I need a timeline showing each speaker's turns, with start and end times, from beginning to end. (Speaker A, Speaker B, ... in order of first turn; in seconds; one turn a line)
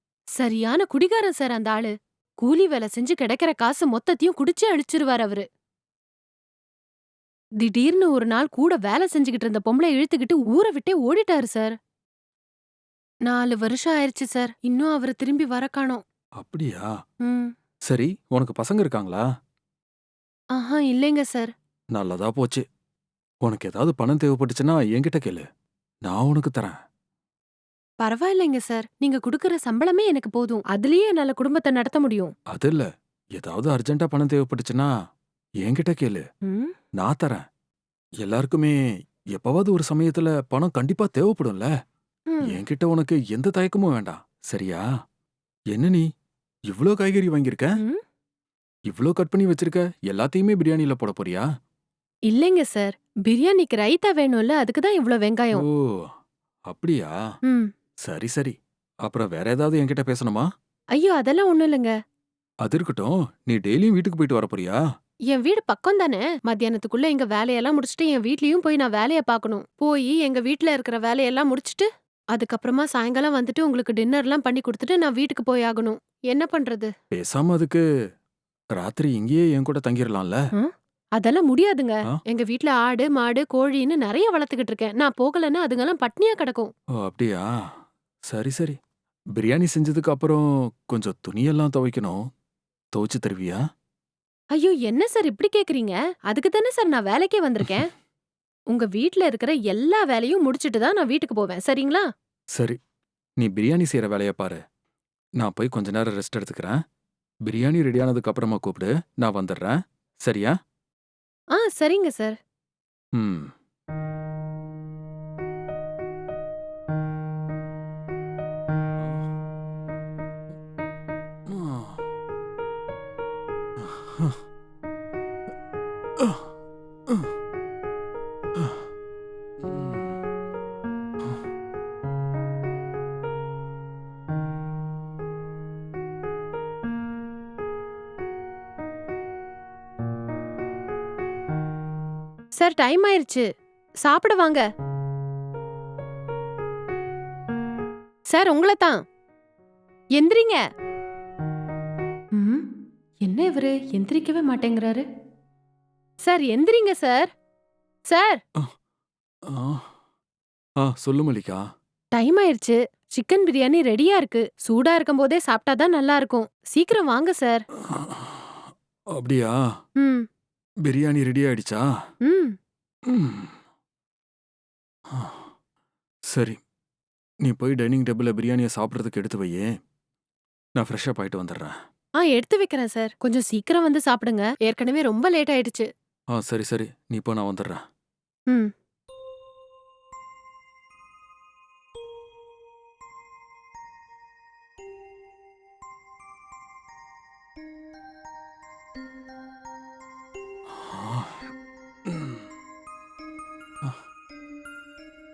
Speaker A: 0.4-5.5
Speaker A: 7.6-11.8
Speaker A: 13.3-16.0
Speaker B: 16.4-16.9
Speaker A: 17.2-17.5
Speaker B: 17.9-19.2
Speaker A: 20.6-21.5
Speaker B: 22.0-22.6
Speaker B: 23.4-25.5
Speaker B: 26.1-26.8
Speaker A: 28.0-32.3
Speaker B: 32.5-32.9
Speaker B: 33.4-34.9
Speaker B: 35.6-36.2
Speaker A: 36.5-36.7
Speaker B: 37.0-37.4
Speaker B: 38.2-38.8
Speaker B: 39.3-41.7
Speaker A: 42.3-42.6
Speaker B: 42.4-44.9
Speaker B: 45.7-46.1
Speaker B: 46.7-47.7
Speaker B: 48.9-51.5
Speaker A: 52.3-55.7
Speaker B: 55.5-56.1
Speaker B: 56.7-57.2
Speaker B: 58.1-58.5
Speaker B: 59.1-60.5
Speaker A: 61.0-61.9
Speaker B: 62.6-64.8
Speaker A: 65.3-76.9
Speaker B: 77.1-77.8
Speaker B: 78.8-80.4
Speaker A: 80.6-86.7
Speaker B: 87.0-87.5
Speaker B: 88.3-88.8
Speaker B: 89.4-92.2
Speaker B: 92.9-93.6
Speaker A: 94.5-97.9
Speaker A: 98.7-102.1
Speaker B: 103.4-104.6
Speaker B: 105.4-106.8
Speaker B: 107.5-110.5
Speaker A: 111.6-112.4
Speaker B: 113.2-113.5
Speaker B: 121.5-122.0
Speaker B: 123.8-124.4
Speaker B: 126.2-126.5
Speaker B: 128.6-128.8
Speaker B: 129.6-130.2
Speaker A: 142.6-143.4
Speaker A: 144.0-144.6
Speaker A: 148.3-149.0
Speaker A: 150.2-150.6
Speaker A: 152.3-152.6
Speaker A: 153.2-155.1
Speaker A: 156.2-157.3
Speaker A: 158.1-158.4
Speaker B: 159.5-159.9
Speaker B: 160.8-161.6
Speaker A: 162.2-167.6
Speaker B: 167.9-168.6
Speaker B: 169.2-169.6
Speaker A: 170.0-170.3
Speaker B: 170.8-171.8
Speaker A: 172.2-172.6
Speaker B: 173.1-173.6
Speaker B: 175.1-175.5
Speaker B: 176.3-176.6
Speaker B: 177.4-179.7
Speaker B: 180.8-181.8
Speaker A: 182.2-185.9
Speaker B: 186.3-187.8
Speaker B: 200.7-201.4
Speaker B: 202.1-202.4